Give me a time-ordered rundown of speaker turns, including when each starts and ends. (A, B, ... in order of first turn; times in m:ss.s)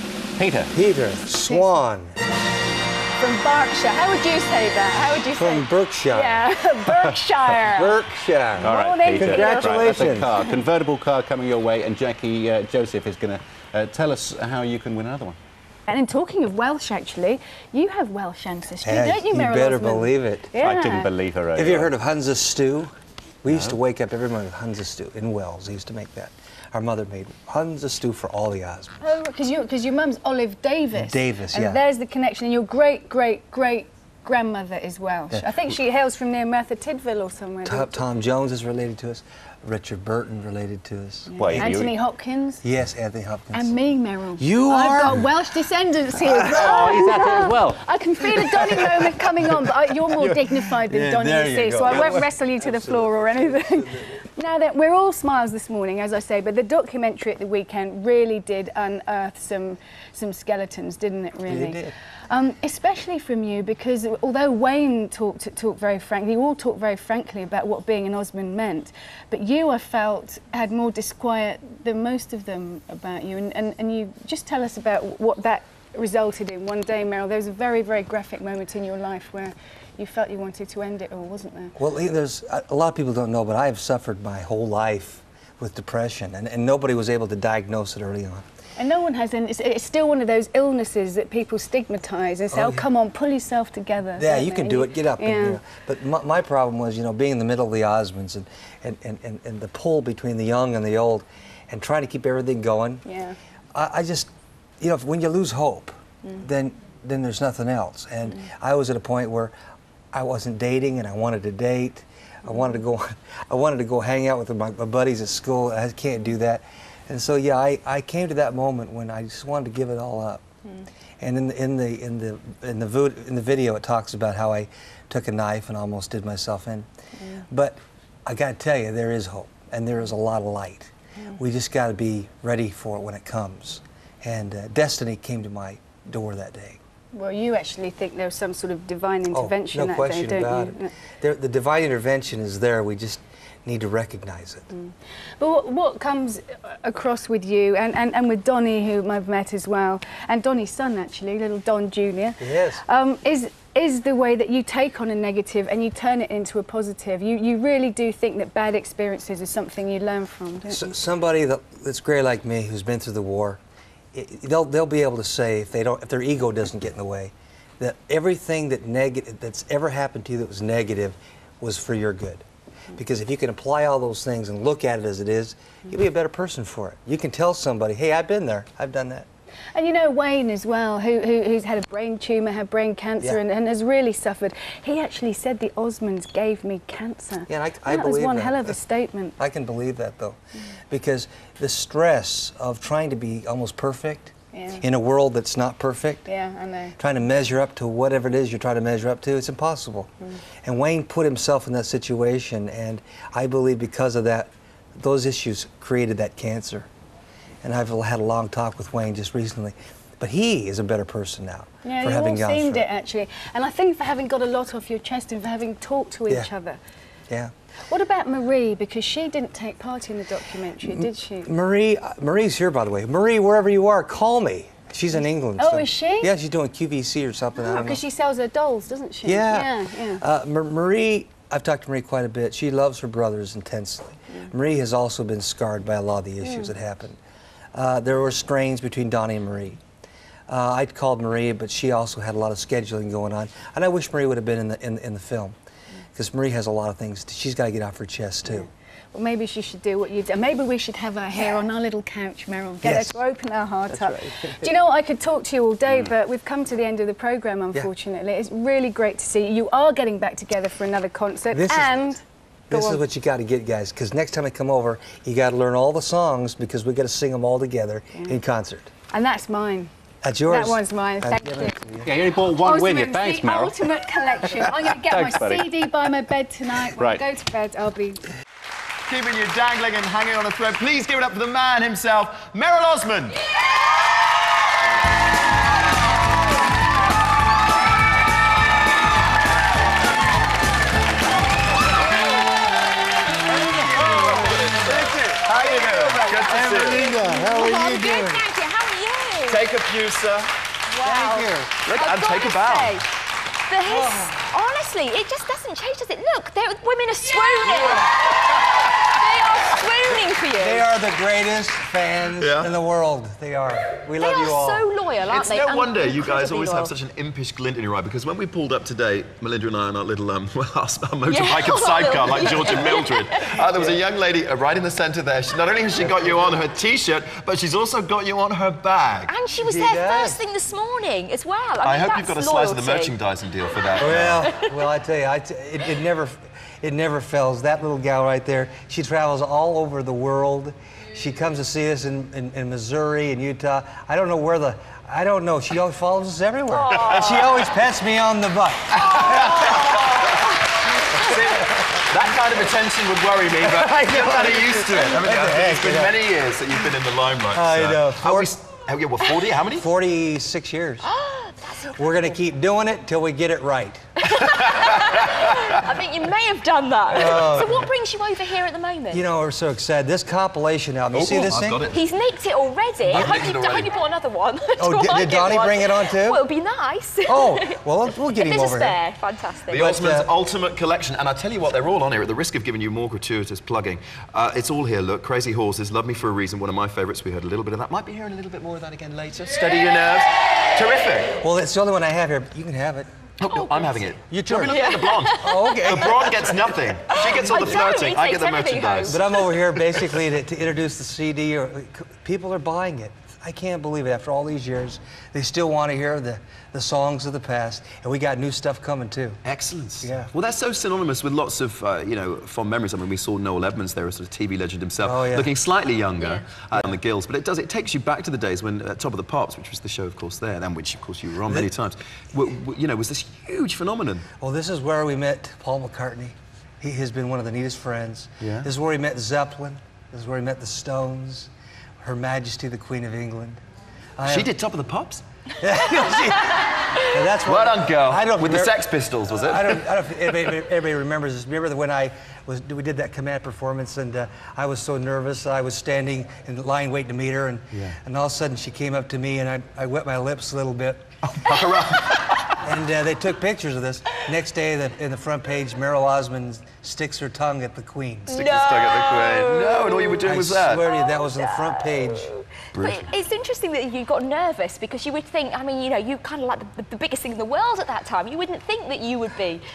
0:00.4-0:00.7 A
0:00.7-0:02.1 B
0:01.4-0:01.7 C
0:03.2-0:08.0 C
0:05.3-0:06.5 B
0:07.7-0:10.3 B
0:08.6-0:15.4 A
0:08.6-0:10.6 C
0:15.9-0:21.1 C
0:18.8-0:20.5 B
0:20.6-0:21.9 A
0:21.5-0:22.9 B
0:23.4-0:29.0 B
0:23.5-0:23.8 A
0:29.0-0:38.0 C
0:30.9-0:31.8 B
0:37.6-0:41.7 B
0:41.3-0:42.6 C
0:41.4-0:41.9 A
0:42.6-0:43.7 B
0:43.5-1:21.7 C
0:44.4-0:45.2 B
0:46.3-0:46.7 B
0:46.4-0:47.8 A
0:48.3-0:48.7 A
0:50.8-0:54.1 B
1:01.5-1:01.9 B
1:21.8-1:28.4 B
1:28.8-1:35.6 C
1:32.5-1:32.9 B
1:34.2-1:43.0 B
1:43.0-1:43.4 C
1:43.7-1:44.3 B
1:44.8-1:49.5 B
1:50.1-2:00.4 B
2:01.2-2:06.9 B
2:07.5-2:16.8 B
2:17.1-2:20.9 C
2:19.3-2:24.7 B
2:24.7-2:40.9 C
2:32.4-2:32.8 B
2:40.7-2:43.6 B
2:44.1-2:52.4 B
2:53.0-2:59.2 B
2:59.7-3:09.4 C
3:07.5-3:08.8 B
3:09.4-3:10.4 B
3:10.9-3:16.3 B
3:14.5-3:14.8 C
3:16.3-3:17.0 C
3:17.0-3:20.1 B
3:20.6-3:26.9 B
3:27.6-3:32.8 B
3:31.8-3:36.8 C
3:37.9-3:41.5 C
3:40.8-3:48.0 B
3:45.6-3:46.3 C
3:47.6-3:50.2 C
3:49.2-3:57.2 B
3:56.4-3:56.7 C
3:57.7-3:59.8 B
4:00.5-4:05.5 B
4:06.1-4:08.7 B
4:09.1-4:23.0 C
4:12.8-4:13.2 B
4:13.9-4:14.7 B
4:21.5-4:22.1 B
4:22.7-4:28.9 B
4:29.1-4:29.9 C
4:30.2-4:32.1 B
4:30.5-4:31.8 C
4:32.0-4:33.8 A
4:32.5-4:38.2 C
4:34.4-4:35.7 A
4:36.9-4:37.2 A
4:39.1-4:43.4 D
4:53.5-4:58.5 B
4:53.8-4:57.1 D
4:56.1-4:57.3 C
4:57.5-4:59.6 E
4:59.4-5:00.5 D
5:01.0-5:01.5 E
5:01.0-5:01.8 B
5:01.8-5:03.0 D
5:02.0-5:02.9 E
5:03.8-5:04.5 B
5:03.9-5:07.9 E
5:07.6-5:08.2 D
5:09.2-5:10.0 E
5:10.5-5:14.9 B
5:12.4-5:12.7 D
5:14.2-5:16.7 E
5:15.3-5:29.3 D
5:21.6-5:22.0 E
5:22.3-5:22.6 B
5:22.6-5:23.2 E
5:23.7-5:24.0 B
5:26.0-5:26.3 B
5:29.5-5:33.0 E
5:29.6-5:30.4 B
5:31.8-5:34.5 D
5:34.0-5:50.1 B
5:46.9-5:47.6 D
5:48.9-5:50.5 D
5:51.1-5:59.9 D
5:51.2-5:51.9 B
5:53.6-5:56.2 B
5:57.5-5:58.5 B
5:59.8-6:01.0 B
6:01.3-6:01.7 E
6:02.0-6:04.1 B
6:04.4-6:04.8 E
6:04.5-6:05.9 D
6:06.0-6:09.1 E
6:07.1-6:07.9 B
6:09.1-6:11.8 B
6:11.1-6:12.0 D
6:12.3-6:17.6 E
6:13.0-6:13.9 D
6:13.1-6:13.4 B
6:14.8-6:16.4 B
6:17.2-6:19.0 B
6:18.4-6:19.6 E
6:19.7-6:20.3 B
6:19.7-6:31.4 D
6:31.4-6:33.1 B
6:33.4-6:40.0 D
6:34.3-6:34.8 B
6:35.4-6:36.8 B
6:37.4-6:38.8 E
6:39.0-6:49.4 B
6:49.4-7:04.2 D
6:50.0-6:50.3 B
6:55.0-6:55.5 B
7:04.4-7:11.5 B
7:08.4-7:08.7 D
7:12.0-7:13.6 B
7:14.2-7:14.5 B
7:14.2-7:15.2 D
7:15.6-7:31.1 B
7:16.9-7:19.8 D
7:27.7-7:28.0 D
7:31.2-7:32.6 D
7:32.6-7:38.4 B
7:38.3-7:40.8 D
7:38.5-7:40.0 E
7:40.2-7:42.3 B
7:41.4-7:42.3 E
7:42.7-7:43.1 D
7:43.1-7:49.6 E